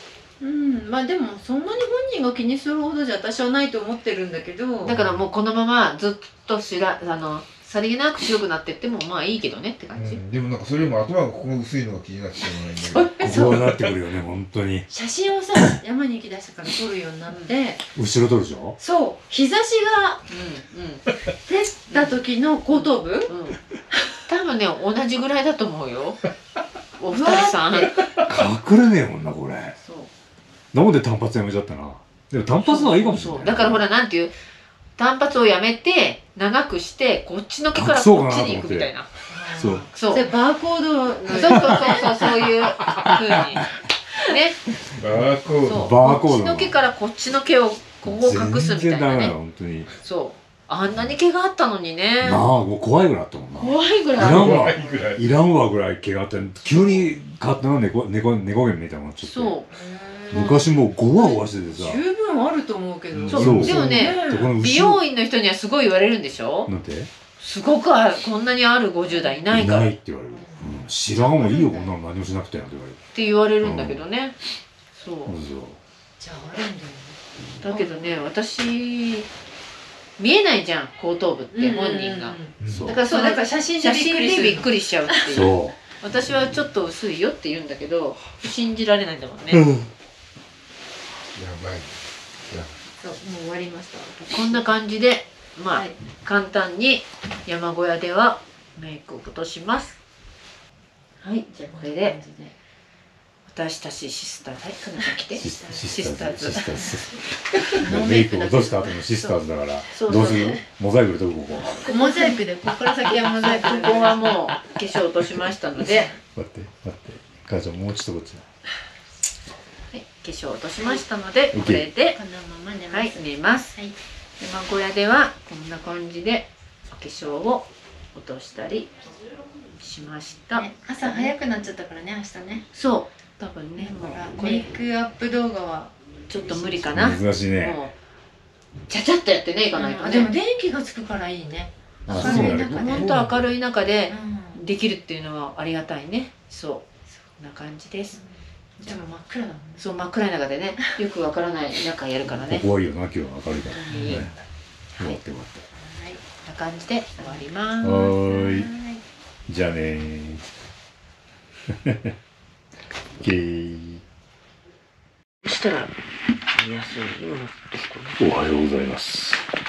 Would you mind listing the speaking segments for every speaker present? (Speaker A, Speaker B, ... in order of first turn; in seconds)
Speaker A: 0.4-5.0, 12.8-13.8, 14.9-17.8, 18.8-20.2, 21.5-23.3, 27.1-27.9, 39.3-42.3, 43.2-43.4, 59.7-64.5, 69.1-69.4, 70.3-71.9, 76.2-78.2, 81.5-85.3, 93.0-94.7, 101.7-102.5, 105.4-105.8, 111.8-114.4, 122.1-123.2, 130.5-132.7, 133.8-135.9, 136.4-136.8, 139.8-143.1, 144.1-144.6, 148.8-149.8, 153.9-154.2, 155.8-156.2, 157.2-159.0
Speaker B: 4.8-10.2, 17.3-17.5, 20.3-21.1, 21.9-23.6, 24.3-26.2, 27.0-28.0, 29.8-30.1, 32.6-34.3, 35.0-39.1, 39.9-40.3, 41.3-43.7, 44.2-44.6, 45.1-49.3, 50.0-52.5, 53.6-54.9, 59.2-59.7, 60.3-60.6, 63.3-66.7, 67.4-69.9, 73.1-74.3, 75.0-75.4, 77.6-79.3, 80.2-89.7, 94.3-100.0, 101.2-102.2, 103.5-106.9, 107.6-110.6, 111.8-112.3, 113.1-116.2, 119.9-122.2, 122.9-123.8, 124.4-128.9, 129.8-131.3, 132.7-134.7, 136.3-137.9, 138.9-140.3, 142.1-146.8, 147.4-148.2, 149.8-152.7, 153.7-154.3, 156.4-158.1, 165.4-165.9, 166.5-168.2
Speaker C: 4.9-5.2, 9.9-13.4, 45.0-45.9, 54.1-55.4, 63.1-63.9, 82.6-82.9, 91.3-91.9
Speaker D: 13.2-14.9, 17.9-18.8, 28.2-29.8, 30.7-33.8, 37.7-38.9, 39.6-39.9, 41.5-41.9, 42.9-43.2, 45.7-46.8, 48.0-49.9, 52.2-59.5, 60.3-62.0, 63.3-65.0, 66.7-67.1, 69.5-73.0, 73.6-74.0, 75.3-75.8, 82.7-83.0, 85.3-85.8, 89.5-89.8, 105.4-111.8, 116.3-118.4, 121.5-121.9, 136.9-137.8, 142.1-143.4, 152.5-154.3, 155.0-155.6, 157.8-158.7, 159.5-160.4, 161.7-162.1, 163.2-164.0, 168.2-169.5